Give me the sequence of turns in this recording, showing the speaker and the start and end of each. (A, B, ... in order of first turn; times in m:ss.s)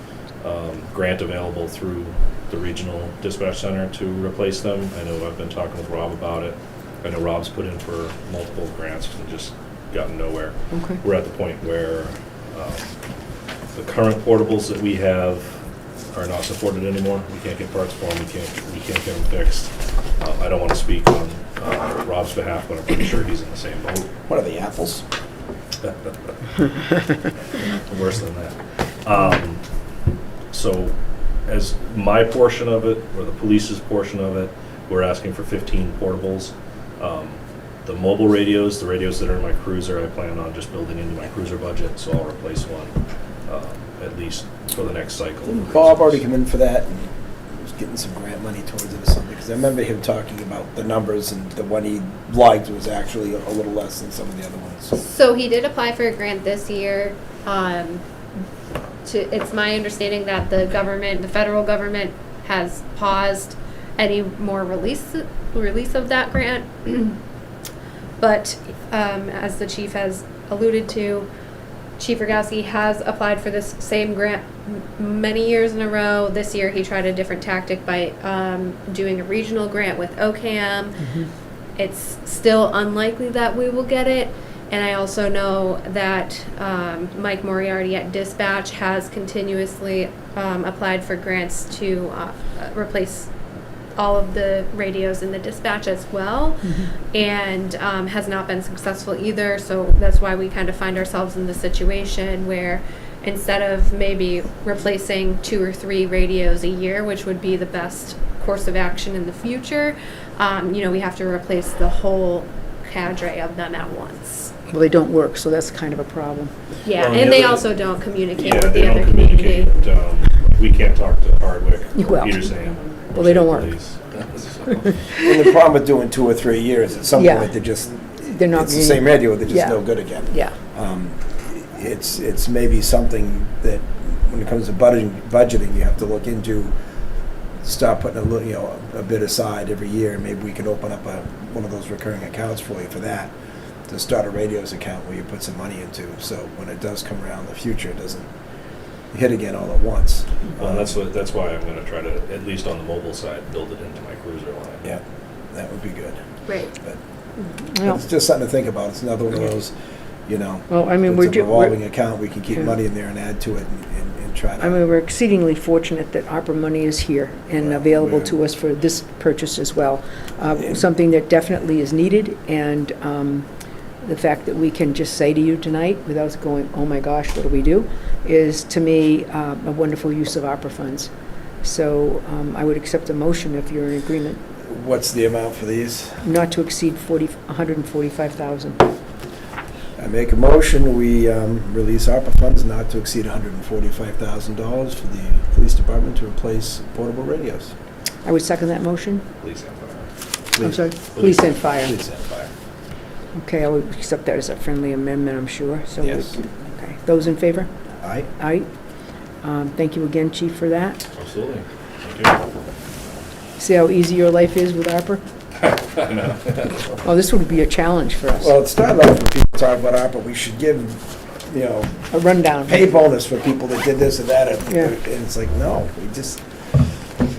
0:00.4-0:13.0 A
0:10.7-0:11.0 B
0:13.7-0:15.6 A
0:16.1-0:24.1 A
0:24.3-0:25.0 C
0:27.7-0:29.6 A
0:30.5-0:31.0 A
0:31.5-0:43.0 A
0:43.5-0:46.2 A
0:45.5-0:55.0 C
0:55.0-0:58.0 D
0:59.0-1:07.2 D
1:08.2-1:11.3 D
1:12.0-1:21.0 D
1:21.0-1:21.3 B
1:21.8-1:33.3 D
1:34.0-1:54.5 D
1:36.6-1:36.9 B
1:54.7-1:56.5 B
1:56.8-1:59.7 D
1:57.0-1:57.7 A
1:58.4-2:05.0 A
2:02.0-2:02.5 B
2:03.2-2:03.7 B
2:04.8-2:05.2 B
2:05.2-2:16.8 C
2:07.2-2:07.5 B
2:08.2-2:10.6 B
2:17.6-2:23.3 C
2:23.9-2:28.3 C
2:29.1-2:30.9 C
2:30.6-2:34.9 A
2:34.8-2:36.2 C
2:36.5-2:36.7 D
2:37.7-2:38.0 B
2:37.8-2:39.7 C
2:40.3-2:44.8 C
2:40.7-2:41.8 B
2:44.6-2:53.5 B
2:47.6-2:48.4 C
2:54.0-3:01.1 B
3:01.6-3:04.4 B
3:04.6-3:06.2 C
3:06.2-3:08.9 B
3:10.0-3:17.7 C
3:18.2-3:19.2 B
3:19.4-3:20.1 A
3:20.5-3:22.5 C
3:20.6-3:21.9 B
3:21.2-3:21.7 A
3:23.4-3:27.7 B
3:26.0-3:26.4 C
3:28.0-3:28.3 C
3:28.4-3:28.7 B
3:29.4-3:31.0 B
3:31.2-3:32.4 A
3:33.6-3:35.2 B
3:35.6-3:36.8 A
3:37.0-3:38.5 B
3:38.4-3:42.1 C
3:42.1-3:42.8 B
3:42.6-3:46.8 C